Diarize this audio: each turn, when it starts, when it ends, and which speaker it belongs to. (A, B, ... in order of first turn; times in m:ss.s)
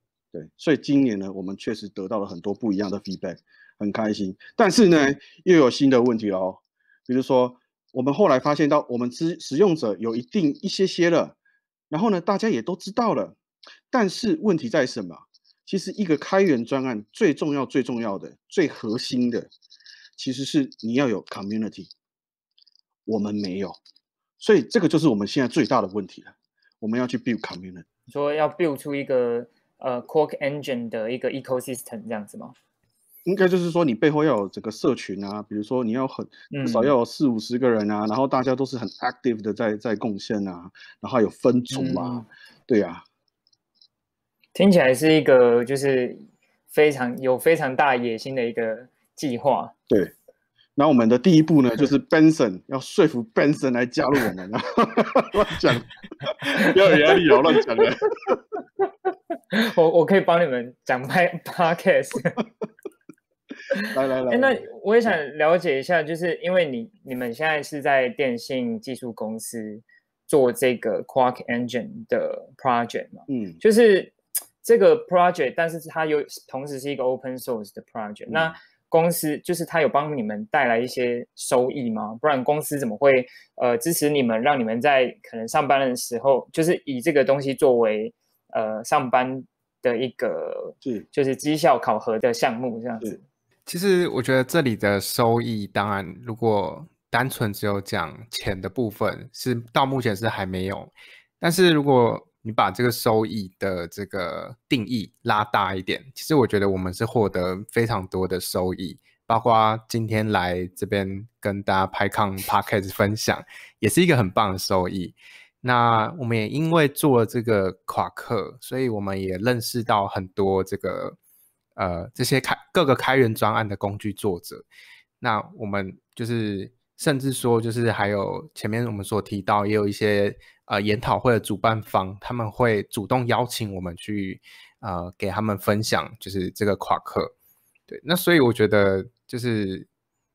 0:00.3-0:11.4 A
0:11.9-0:13.4 A
0:13.9-0:19.5 A
0:20.2-0:21.9 A
0:23.1-0:23.8 A
0:24.4-0:27.8 A
0:28.1-0:32.6 B
0:33.2-0:43.0 A
0:36.5-0:36.9 B
0:41.7-0:42.2 B
0:44.6-0:49.7 B
0:50.8-0:55.9 A
0:56.4-0:58.4 A
0:56.4-0:57.6 B
0:58.8-1:02.4 B
1:03.7-1:33.2 B
1:03.9-1:04.6 A
1:13.3-1:13.6 A
1:18.3-1:18.6 A
1:33.7-1:40.9 C
1:41.4-2:01.2 C
2:01.8-2:04.6 C
2:05.2-2:17.3 C
2:17.9-2:19.9 C